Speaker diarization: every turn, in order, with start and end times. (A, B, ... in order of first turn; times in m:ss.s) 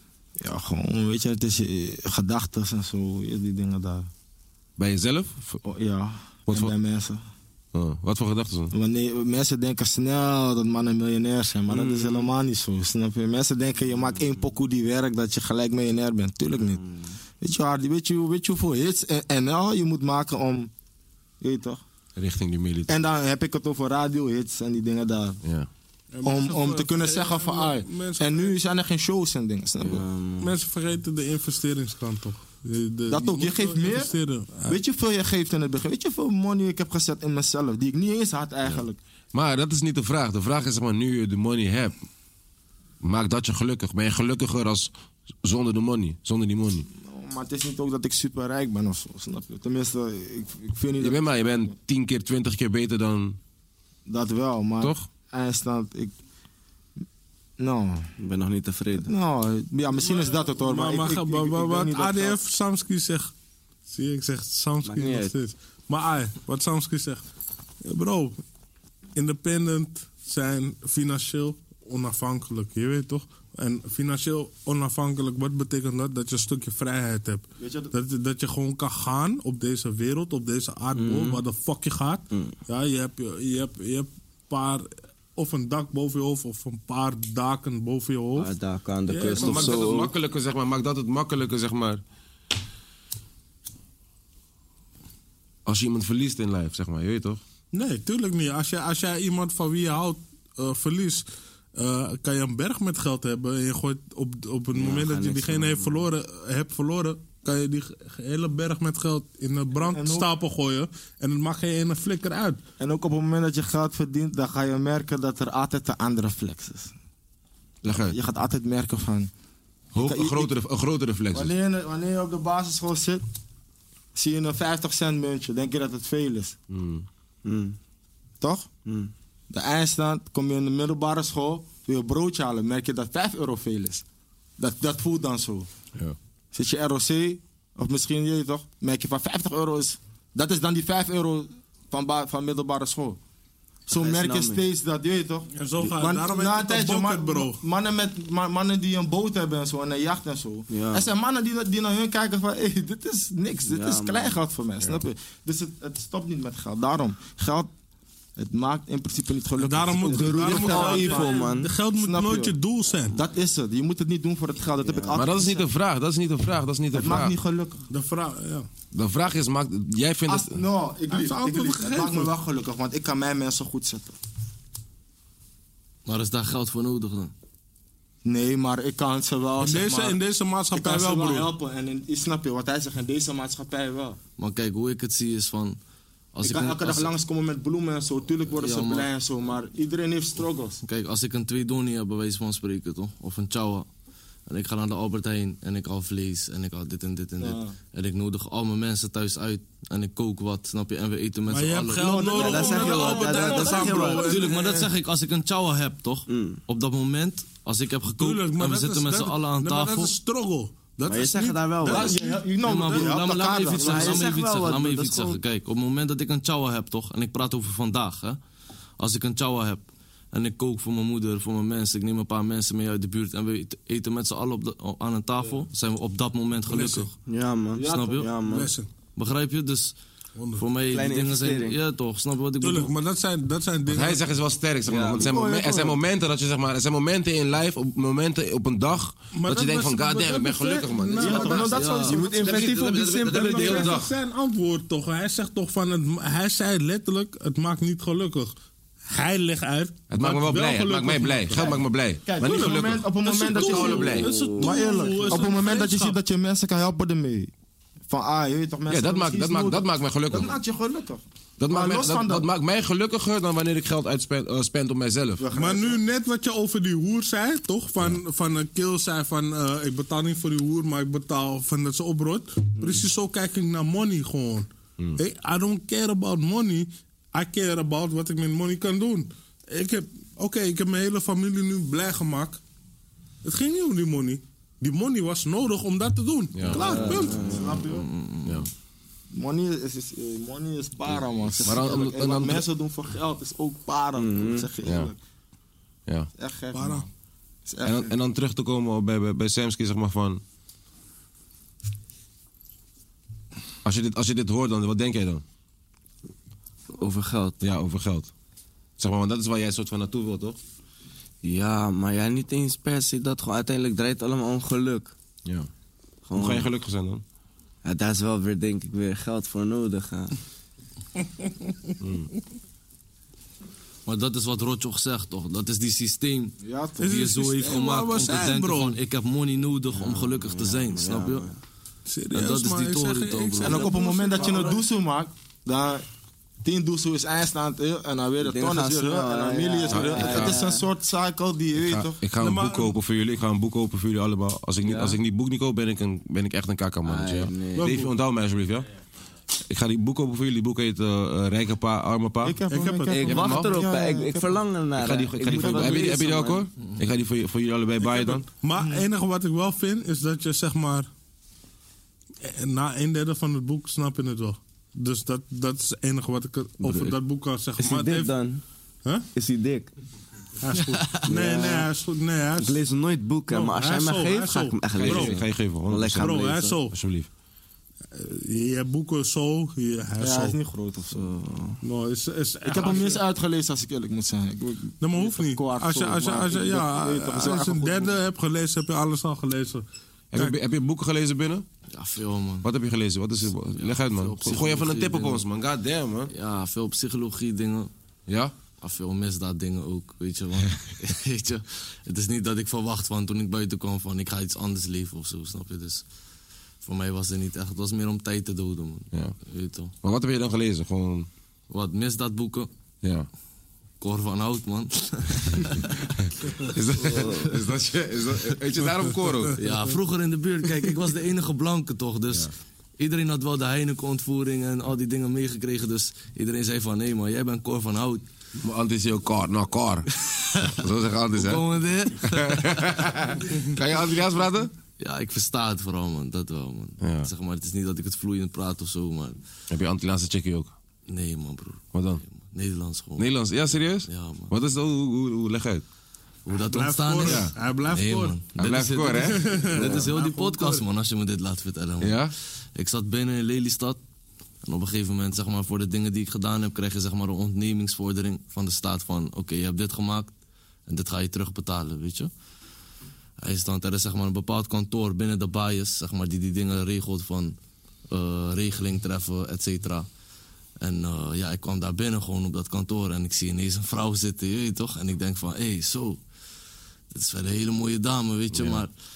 0:00.4-0:04.1 A
0:04.8-0:05.6 B
0:05.6-0:07.2 A
0:07.7-0:08.7 B
0:08.7-0:16.9 A
0:11.7-0:12.3 C
0:17.4-0:20.7 A
0:21.4-0:21.8 A
0:22.2-0:23.0 B
0:22.9-0:25.4 A
0:25.4-0:25.7 B
0:26.1-0:28.5 D
0:26.2-0:30.0 A
0:29.8-0:30.6 C
0:30.4-0:34.8 D
0:33.1-0:34.1 A
0:34.6-0:39.0 A
0:39.3-0:42.0 B
0:43.0-0:44.9 B
0:45.4-0:46.9 B
0:46.9-0:51.4 A
0:51.0-0:53.4 B
0:54.0-0:56.1 A
0:54.8-0:55.1 B
0:57.6-0:58.1 A
0:58.2-0:59.1 C
0:59.0-1:02.4 A
1:00.0-1:03.3 D
1:03.9-1:07.2 D
1:04.8-1:05.3 C
1:07.8-1:08.4 D
1:09.2-1:28.5 D
1:17.6-1:17.9 A
1:20.9-1:21.4 C
1:28.4-1:30.1 C
1:29.1-1:30.0 D
1:29.4-1:32.0 B
1:35.6-1:37.4 B
1:37.7-1:41.2 D
1:41.8-1:52.6 D
1:44.7-1:46.1 C
1:49.8-1:50.3 A
1:52.8-1:56.9 A
1:57.8-1:58.2 B
1:57.8-1:59.3 A
1:59.9-2:01.5 B
1:59.9-2:00.6 A
2:01.3-2:03.2 A
2:04.1-2:06.6 A
2:06.7-2:07.0 B
2:07.4-2:07.8 C
2:08.4-2:08.7 A
2:08.8-2:09.1 C
2:09.5-2:14.0 A
2:14.6-2:15.7 A
2:16.5-2:23.2 A
2:23.9-2:37.7 A
2:23.9-2:24.6 C
2:25.5-2:27.6 D
2:30.7-2:31.1 C
2:33.7-2:34.4 C
2:38.4-2:41.4 A
2:39.6-2:43.2 D
2:40.0-2:41.7 C
2:41.9-2:42.6 A
2:43.1-2:45.7 A
2:44.8-2:45.2 C
2:45.1-2:47.3 B
2:46.9-2:47.8 A
2:47.9-2:48.7 D
2:48.9-2:50.6 B
2:50.2-2:54.2 A
2:51.1-2:52.3 D
2:56.0-2:57.3 E
2:58.2-3:00.2 A
2:59.6-3:01.5 D
3:00.7-3:04.2 A
3:04.4-3:05.8 E
3:06.3-3:07.1 E
3:06.4-3:10.8 A
3:08.6-3:09.1 E
3:10.8-3:13.8 E
3:14.5-3:22.4 E
3:17.4-3:17.7 A
3:21.5-3:24.9 D
3:22.0-3:24.4 A
3:22.3-3:24.4 C
3:24.1-3:30.1 E
3:26.3-3:26.6 C
3:28.2-3:32.4 D
3:31.0-3:32.2 C
3:31.8-3:34.3 A
3:32.6-3:38.4 E
3:33.7-3:35.4 C
3:39.0-3:47.1 E
3:46.7-3:47.1 D
3:47.3-3:48.7 C
3:47.7-3:48.3 A
3:47.8-3:48.3 E
3:48.4-3:48.9 D
3:49.2-3:50.0 E
3:50.4-3:50.6 D
3:50.6-3:52.9 E
3:50.9-3:51.8 C
3:52.6-3:54.2 D
3:53.9-4:04.1 B
3:54.8-3:55.3 C
3:55.0-3:56.0 A
3:59.3-4:08.5 D
4:01.2-4:04.0 A
4:01.5-4:02.7 E
4:09.1-4:11.8 D
4:10.1-4:14.3 B
4:11.5-4:17.5 A
4:12.4-4:16.2 D
4:13.6-4:15.5 C
4:18.1-4:22.5 A
4:18.9-4:20.6 B
4:21.6-4:25.5 B
4:25.4-4:26.0 A
4:25.5-4:42.6 D
4:43.4-4:47.5 D
4:46.5-4:46.9 B
4:46.7-4:47.8 C
4:46.9-4:48.1 A
4:47.8-4:48.7 E
4:49.3-4:55.2 A
4:51.6-4:52.6 B
4:54.2-4:54.7 C
4:54.8-4:55.1 B
4:56.4-4:57.1 A
4:56.7-4:57.0 D
4:57.6-4:58.1 A
4:57.8-5:00.4 B
5:03.8-5:05.4 B
5:06.9-5:07.6 C
5:07.6-5:08.3 B
5:09.0-5:10.6 B
5:11.4-5:15.1 C
5:15.4-5:15.7 B
5:16.3-5:16.7 C
5:16.3-5:17.2 B
5:17.8-5:20.3 C
5:22.0-5:22.3 B
5:24.0-5:31.5 E
5:26.6-5:27.2 A
5:27.0-5:29.0 D
5:29.9-5:31.6 C
5:32.1-5:34.8 D
5:32.3-5:33.9 E
5:33.6-5:36.0 A
5:36.6-5:42.2 A
5:38.4-5:40.8 C
5:39.9-5:40.6 B
5:41.8-5:48.9 B
5:42.4-5:43.0 D
5:44.8-5:45.2 C
5:47.0-5:47.9 C
5:47.7-5:48.1 D
5:49.7-5:52.6 B
5:52.4-5:54.6 A
5:52.7-5:53.2 D
5:53.1-5:56.7 C
5:53.3-5:53.8 B
5:55.0-5:58.5 B
5:55.5-5:56.2 A
5:58.1-6:01.1 D
5:58.8-5:59.0 A
6:02.4-6:08.3 D
6:06.8-6:07.2 C
6:07.8-6:08.6 C
6:09.3-6:09.9 C
6:10.6-6:12.8 D
6:11.2-6:11.9 C
6:12.6-6:16.8 C
6:13.5-6:15.4 D
6:15.0-6:17.3 B
6:16.2-6:17.0 D
6:18.1-6:20.6 D
6:20.2-6:21.3 A
6:21.1-6:21.8 C
6:21.8-6:23.2 D
6:22.6-6:28.1 A
6:25.0-6:30.6 D
6:30.3-6:31.6 B
6:31.9-6:32.7 E
6:32.6-6:36.3 B
6:33.7-6:35.4 E
6:36.3-6:37.9 E
6:38.3-6:38.5 B
6:38.8-6:46.0 E
6:46.8-6:49.9 E
6:50.0-6:51.3 B
6:51.7-6:52.7 E
6:53.0-6:53.3 B
6:54.0-6:56.1 E
6:56.2-6:59.6 B
6:57.1-6:57.3 E
6:57.1-6:57.4 C
6:59.6-7:08.2 E
7:08.6-7:11.6 B
7:10.3-7:10.8 E
7:11.3-7:13.5 E
7:12.2-7:14.7 B
7:15.0-7:19.4 E
7:17.0-7:17.3 B
7:19.7-7:20.7 B
7:21.1-7:23.3 E
7:21.9-7:22.2 B
7:23.2-7:25.8 B
7:24.1-7:24.5 E
7:26.4-7:34.0 E
7:26.7-7:28.4 D
7:27.2-7:27.5 B
7:28.6-7:30.0 B
7:29.3-7:30.8 D
7:32.0-7:32.3 B
7:34.6-7:40.3 E
7:40.9-7:42.3 E
7:43.4-7:47.6 E
7:48.1-7:50.1 E
7:50.8-7:56.2 E
7:57.1-7:58.9 E
7:58.5-7:58.8 B